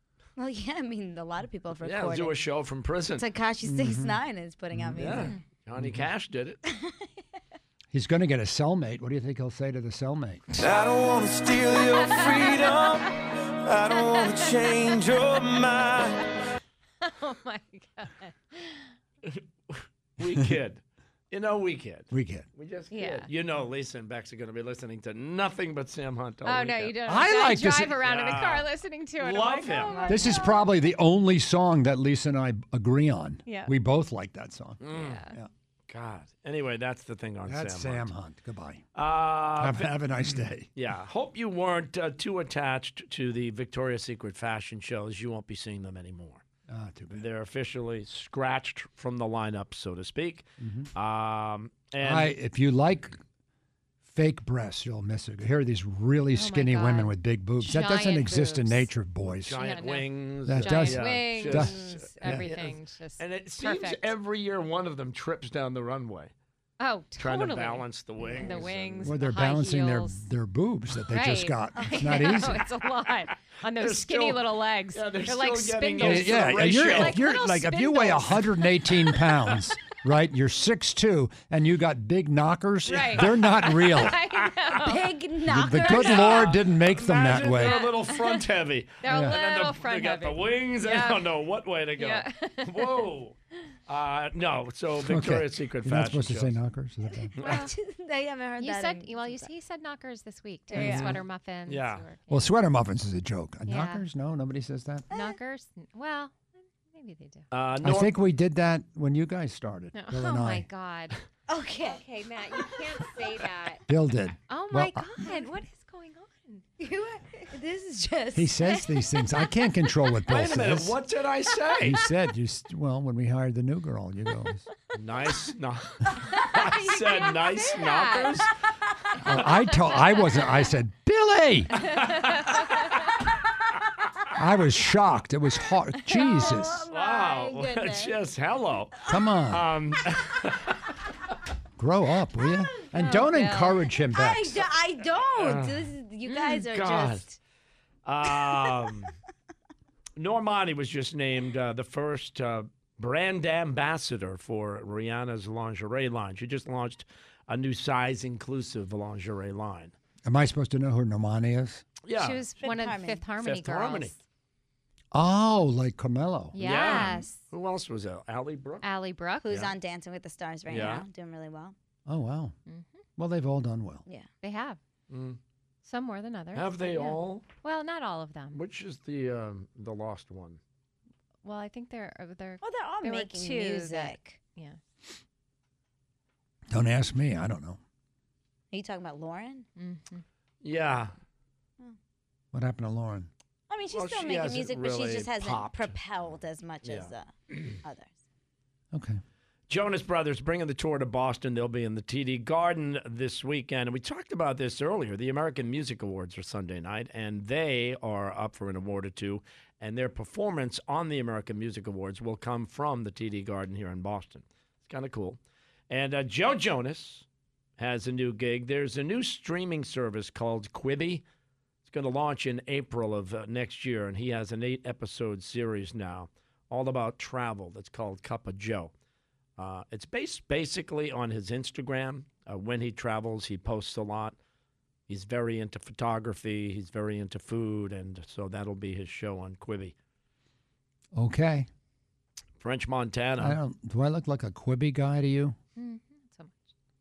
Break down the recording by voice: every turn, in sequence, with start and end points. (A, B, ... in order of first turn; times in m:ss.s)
0:00.4-0:02.4 A
0:01.8-0:03.3 B
0:03.2-0:05.3 A
0:03.6-0:04.2 C
0:04.7-0:06.1 C
0:05.0-0:06.6 B
0:06.6-0:07.2 A
0:07.9-0:10.6 C
0:10.6-0:16.3 D
0:12.0-0:12.5 E
0:14.1-0:14.5 E
0:17.0-0:18.9 E
0:19.2-0:27.0 B
0:22.1-0:22.4 C
0:22.9-0:23.3 E
0:26.4-0:30.6 E
0:27.0-0:28.0 C
0:28.0-0:28.7 B
0:29.2-0:30.1 B
0:29.8-0:30.5 A
0:30.1-0:35.5 C
0:33.4-0:33.7 E
0:34.8-0:35.2 B
0:34.9-0:35.3 E
0:35.9-0:38.1 B
0:37.4-0:38.9 C
0:39.0-0:39.9 B
0:39.6-0:40.7 C
0:40.7-0:46.4 B
0:46.7-0:47.3 C
0:47.2-0:52.3 B
0:50.6-0:50.9 C
0:52.0-0:53.2 C
0:54.0-0:59.6 C
0:56.3-0:58.9 E
0:59.2-1:06.3 B
0:59.5-1:04.1 E
1:00.4-1:02.6 C
1:06.8-1:07.8 E
1:07.2-1:09.1 B
1:08.4-1:10.2 E
1:09.0-1:12.6 C
1:11.1-1:19.3 E
1:13.8-1:17.2 B
1:16.0-1:24.2 C
1:22.9-1:25.1 E
1:22.9-1:24.1 B
1:24.8-1:26.4 A
1:25.4-1:27.9 C
1:25.8-1:26.2 E
1:25.9-1:33.4 B
1:27.4-1:28.4 E
1:29.0-1:31.3 E
1:29.1-1:29.4 C
1:32.0-1:33.0 E
1:33.9-1:36.6 B
1:35.0-1:37.3 C
1:37.1-1:39.5 A
1:37.4-1:37.7 B
1:37.4-1:37.7 E
1:38.6-1:42.5 E
1:40.7-1:41.2 A
1:40.8-1:42.0 B
1:42.3-1:45.1 C
1:43.7-1:44.0 E
1:45.1-1:47.5 E
1:47.5-1:48.1 B
1:47.8-1:50.6 C
1:49.9-1:51.2 E
1:51.5-1:52.0 A
1:51.8-1:53.8 E
1:53.9-1:55.1 C
1:54.5-1:56.6 E
1:56.8-1:58.9 A
1:58.3-2:01.0 C
2:00.3-2:02.0 B
2:01.8-2:04.6 C
2:04.9-2:08.5 B
2:06.4-2:08.4 E
2:09.2-2:11.8 C
2:09.4-2:10.4 E
2:11.8-2:12.8 E
2:11.8-2:12.6 B
2:14.3-2:16.9 C
2:16.1-2:16.5 E
2:16.2-2:18.1 A
2:16.9-2:20.8 B
2:19.1-2:19.7 C
2:21.8-2:24.6 C
2:22.9-2:23.8 E
2:24.1-2:27.4 A
2:25.3-2:25.9 B
2:26.3-2:26.6 E
2:26.7-2:27.2 B
2:28.0-2:29.1 B
2:30.2-2:39.9 B
2:40.2-2:41.8 C
2:42.0-2:42.4 B
2:42.2-2:44.2 E
2:42.6-2:43.2 A
2:43.4-2:44.1 B
2:45.1-2:47.0 C
2:46.5-2:47.4 E
2:46.6-2:48.8 B
2:48.8-2:49.5 E
2:49.4-2:51.7 A
2:50.7-2:51.0 B
2:52.0-2:52.5 C
2:52.7-2:53.0 E
2:53.2-2:54.0 C
2:54.4-2:54.8 E
2:55.1-2:55.4 B
2:55.8-2:58.6 E
2:56.5-2:57.4 B
2:58.5-3:00.6 B
3:01.4-3:04.8 E
3:02.6-3:04.4 A
3:06.7-3:07.8 C
3:08.7-3:09.6 A
3:09.8-3:10.2 E
3:10.6-3:11.1 B
3:12.5-3:13.3 C
3:13.7-3:18.1 A
3:13.9-3:15.9 B
3:16.8-3:17.1 B
3:18.9-3:19.2 C
3:19.7-3:35.4 B
3:35.9-3:37.2 B
3:37.8-3:41.2 B
3:41.8-3:48.9 B
3:49.6-3:54.4 B
3:55.1-3:59.9 B
4:01.1-4:01.7 C
4:02.6-4:03.6 B
4:03.4-4:05.6 C
4:05.8-4:06.7 E